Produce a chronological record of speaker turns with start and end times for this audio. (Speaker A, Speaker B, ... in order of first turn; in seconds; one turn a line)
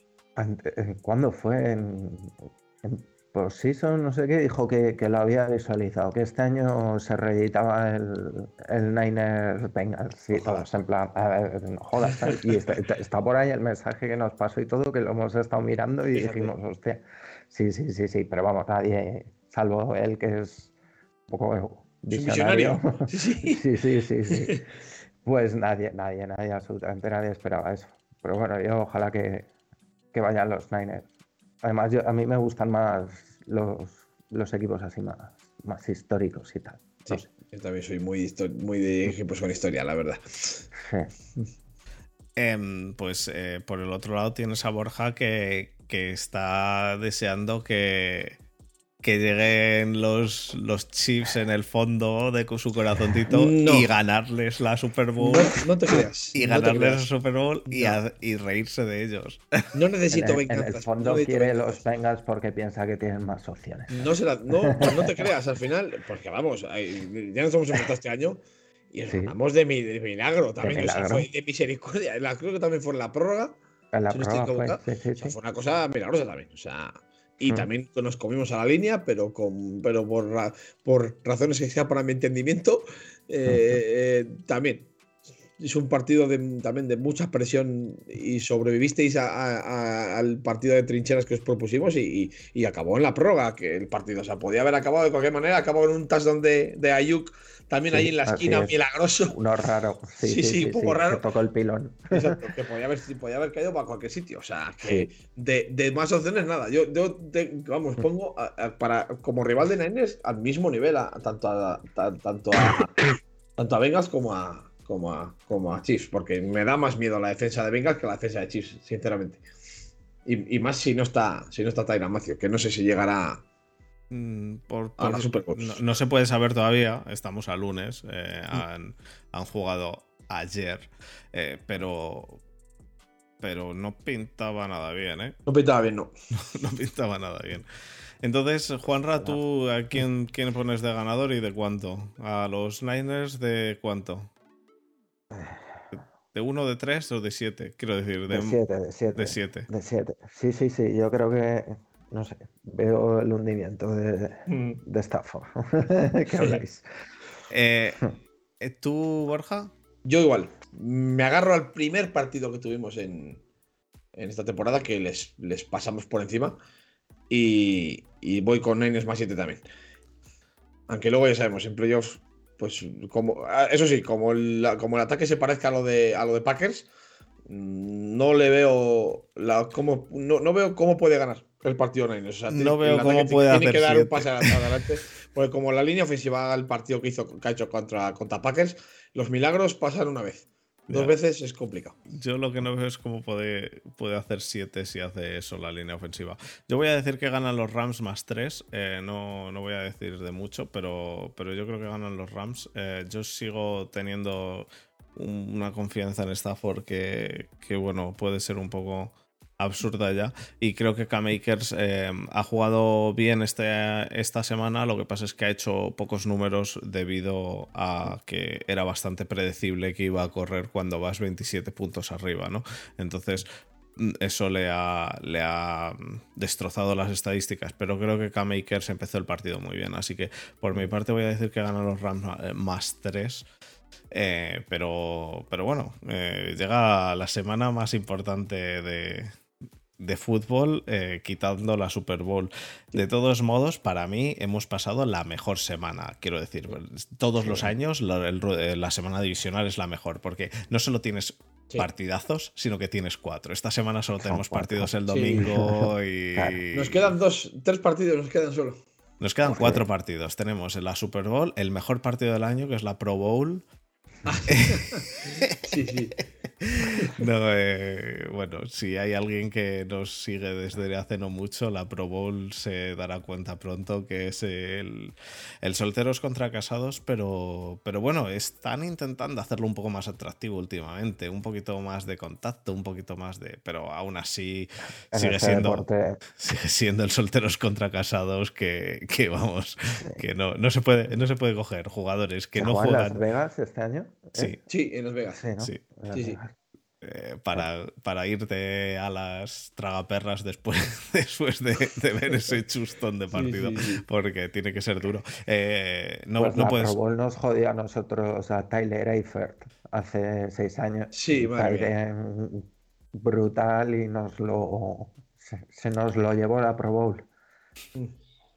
Speaker A: 0.3-20.7
Speaker B: 10.3-10.6
Speaker B: 12.1-12.4
Speaker B: 16.1-16.5
Speaker A: 21.3-24.6
Speaker B: 22.1-23.6
Speaker B: 24.3-24.6
Speaker A: 25.2-29.5
Speaker A: 30.1-31.1
Speaker A: 31.6-37.3
Speaker B: 37.0-40.7
Speaker A: 40.8-41.1
Speaker C: 42.4-48.4
Speaker C: 49.0-55.6
Speaker B: 53.3-53.9
Speaker B: 55.2-57.1
Speaker C: 56.3-59.5
Speaker B: 57.7-58.0
Speaker B: 59.7-61.8
Speaker A: 60.1-64.1
Speaker B: 63.9-73.6
Speaker A: 64.6-65.3
Speaker A: 69.1-69.3
Speaker A: 70.6-71.3
Speaker A: 73.9-75.4
Speaker B: 74.1-84.9
Speaker A: 83.5-83.8
Speaker B: 85.6-99.4
Speaker A: 97.9-98.8
Speaker A: 99.3-102.4
Speaker B: 100.2-101.2
Speaker B: 102.1-113.0
Speaker A: 104.8-105.1
Speaker B: 113.6-119.4
Speaker B: 120.2-123.4
Speaker C: 124.1-132.4
Speaker B: 125.0-125.8
Speaker C: 133.4-135.4
Speaker B: 135.4-136.1
Speaker C: 136.5-137.7
Speaker C: 138.2-144.3
Speaker A: 145.3-145.9
Speaker C: 146.3-148.6
Speaker A: 148.3-156.9
Speaker C: 149.2-149.7
Speaker B: 154.5-154.8
Speaker C: 157.5-159.7
Speaker B: 160.0-163.4
Speaker B: 164.1-166.6
Speaker B: 167.3-169.6
Speaker B: 170.9-176.9
Speaker B: 177.5-192.0
Speaker C: 182.5-184.6
Speaker C: 190.9-191.1
Speaker C: 192.1-233.5
Speaker C: 234.1-239.3
Speaker C: 240.0-257.1
Speaker A: 247.4-247.7
Speaker A: 254.2-256.6
Speaker B: 255.1-255.4
Speaker B: 256.7-258.8
Speaker C: 259.2-263.6
Speaker A: 259.5-259.8
Speaker B: 264.2-265.1
Speaker C: 264.5-265.6
Speaker B: 265.6-266.1
Speaker C: 266.6-293.2
Speaker A: 285.1-286.2
Speaker A: 290.0-290.2
Speaker A: 292.5-294.6
Speaker B: 294.7-295.4
Speaker A: 295.3-296.5
Speaker B: 296.1-296.4
Speaker C: 297.0-306.9
Speaker B: 303.3-304.0
Speaker A: 306.4-317.3
Speaker B: 311.1-311.9